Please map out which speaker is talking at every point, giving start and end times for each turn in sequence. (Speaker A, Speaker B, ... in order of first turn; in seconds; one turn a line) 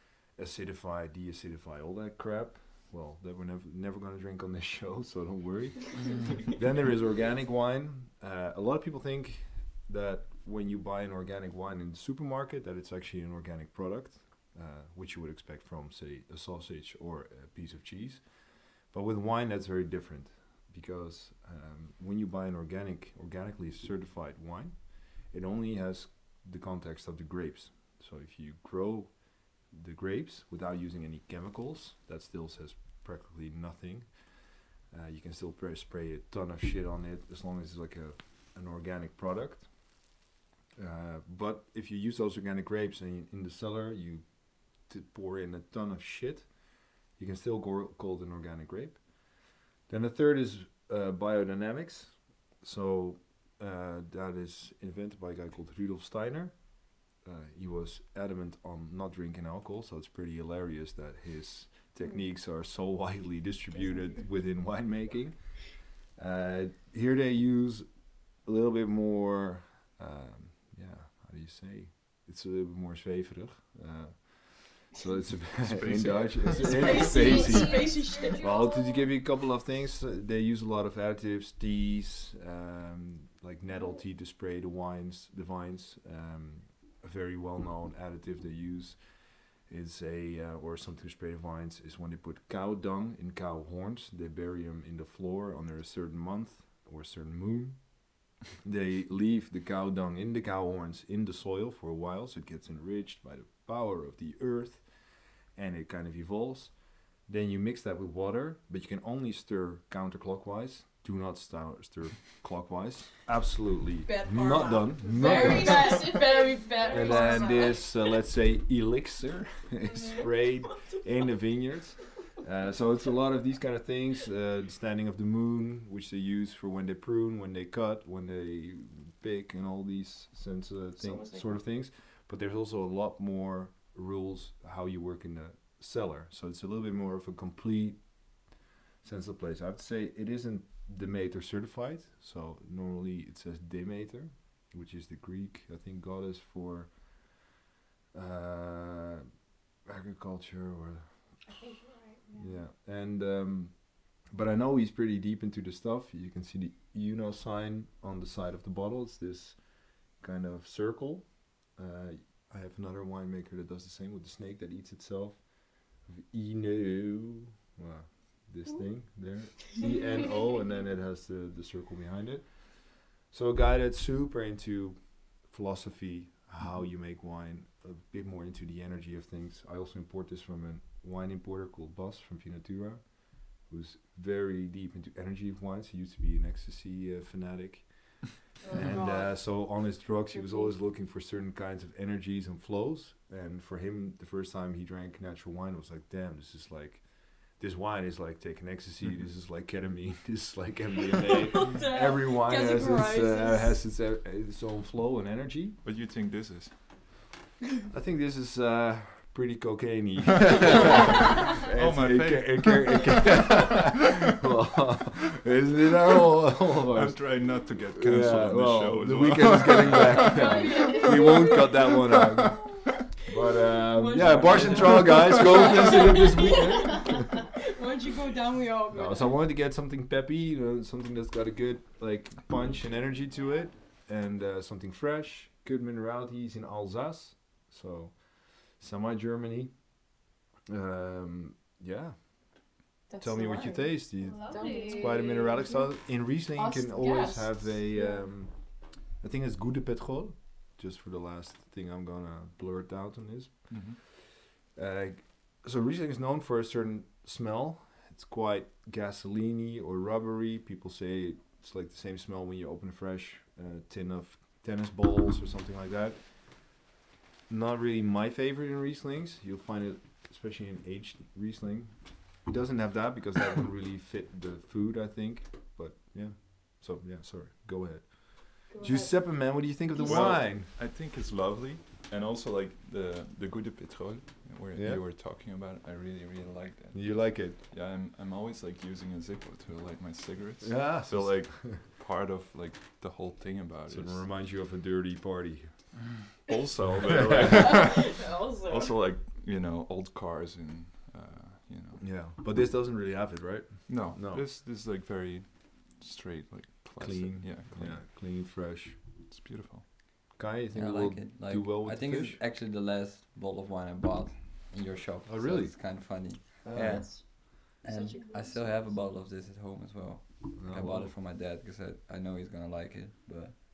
Speaker A: 0.4-34.2
Speaker B: 6.0-6.4
Speaker A: 34.9-39.7
Speaker A: 40.8-46.5
Speaker A: 47.1-49.1
Speaker A: 49.9-89.0
Speaker C: 75.6-76.9
Speaker D: 76.5-79.1
Speaker E: 76.5-78.5
Speaker A: 89.6-98.0
Speaker A: 98.5-104.9
Speaker A: 105.5-116.1
Speaker E: 114.1-118.0
Speaker D: 115.1-117.8
Speaker A: 116.9-138.4
Speaker D: 119.9-120.2
Speaker E: 131.0-131.6
Speaker A: 139.0-147.3
Speaker A: 148.1-149.3
Speaker A: 149.8-151.3
Speaker D: 151.4-152.6
Speaker A: 152.4-205.8
Speaker E: 188.6-190.7
Speaker E: 201.3-203.8
Speaker C: 205.8-206.7
Speaker A: 207.9-227.5
Speaker C: 211.2-213.9
Speaker C: 216.8-220.4
Speaker E: 220.2-221.9
Speaker D: 220.3-221.8
Speaker E: 223.7-229.4
Speaker C: 224.3-225.4
Speaker D: 226.0-226.7
Speaker A: 228.9-239.8
Speaker A: 240.7-266.8
Speaker E: 243.1-248.3
Speaker D: 244.2-245.3
Speaker C: 253.7-254.0
Speaker A: 267.5-280.7
Speaker E: 278.7-279.3
Speaker C: 280.0-294.3
Speaker A: 284.7-285.0
Speaker A: 286.9-287.6
Speaker A: 290.6-291.8
Speaker A: 293.9-296.2
Speaker C: 296.3-302.1
Speaker A: 297.1-297.7
Speaker E: 297.4-298.9
Speaker A: 302.0-304.4
Speaker C: 303.9-308.1
Speaker A: 307.0-309.0
Speaker C: 309.2-309.9
Speaker A: 310.4-312.4
Speaker B: 310.7-323.6
Speaker A: 315.2-317.1
Speaker E: 316.7-319.0
Speaker A: 320.5-321.1